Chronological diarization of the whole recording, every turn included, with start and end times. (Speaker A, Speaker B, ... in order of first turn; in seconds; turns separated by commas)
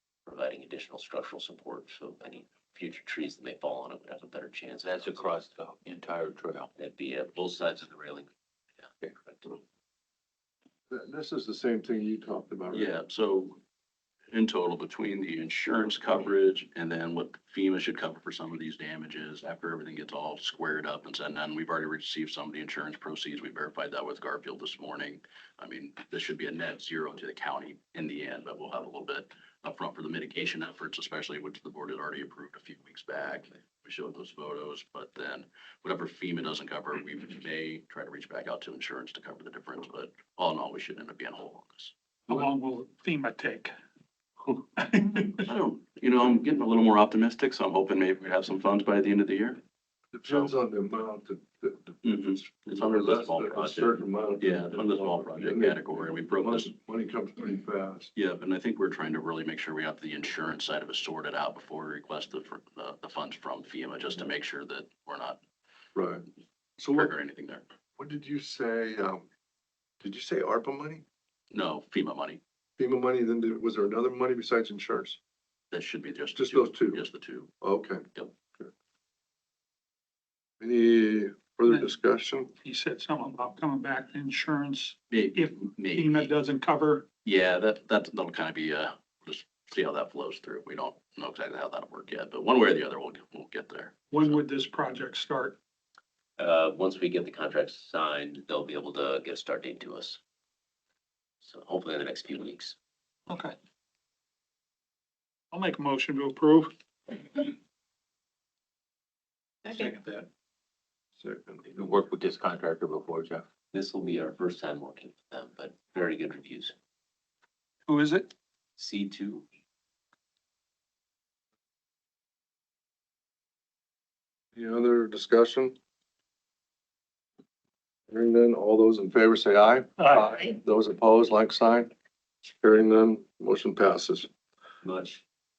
Speaker A: 0.3-5.3, Speaker B: 4.8-6.7, Speaker A: 6.8-8.3, Speaker A: 9.3-9.6, Speaker C: 10.9-12.9, Speaker D: 12.7-13.6, Speaker D: 14.3-41.9, Speaker E: 42.3-43.7, Speaker E: 44.8-45.5, Speaker D: 45.5-49.6, Speaker C: 50.1-58.1, Speaker D: 50.3-50.5, Speaker D: 52.0-56.7, Speaker D: 58.2-65.4, Speaker C: 66.0-66.2, Speaker C: 66.8-67.1, Speaker D: 66.9-67.6, Speaker C: 68.0-69.2, Speaker C: 70.0-71.0, Speaker D: 71.5-72.4, Speaker C: 72.8-75.2, Speaker D: 75.7-77.5, Speaker C: 76.3-77.0, Speaker C: 77.6-78.0, Speaker C: 80.6-82.5, Speaker E: 82.6-87.1, Speaker D: 85.1-86.3, Speaker D: 87.2-94.4, Speaker E: 94.1-95.6, Speaker A: 96.4-100.2, Speaker A: 101.4-102.8, Speaker E: 103.3-103.5, Speaker E: 105.5-107.5, Speaker E: 109.7-110.3, Speaker C: 111.2-111.8, Speaker B: 111.7-113.4, Speaker A: 113.7-116.7, Speaker E: 117.9-118.3, Speaker A: 118.8-119.4, Speaker C: 124.5-125.8, Speaker C: 128.1-131.9, Speaker E: 130.0-130.3, Speaker C: 132.5-134.3, Speaker A: 134.8-135.2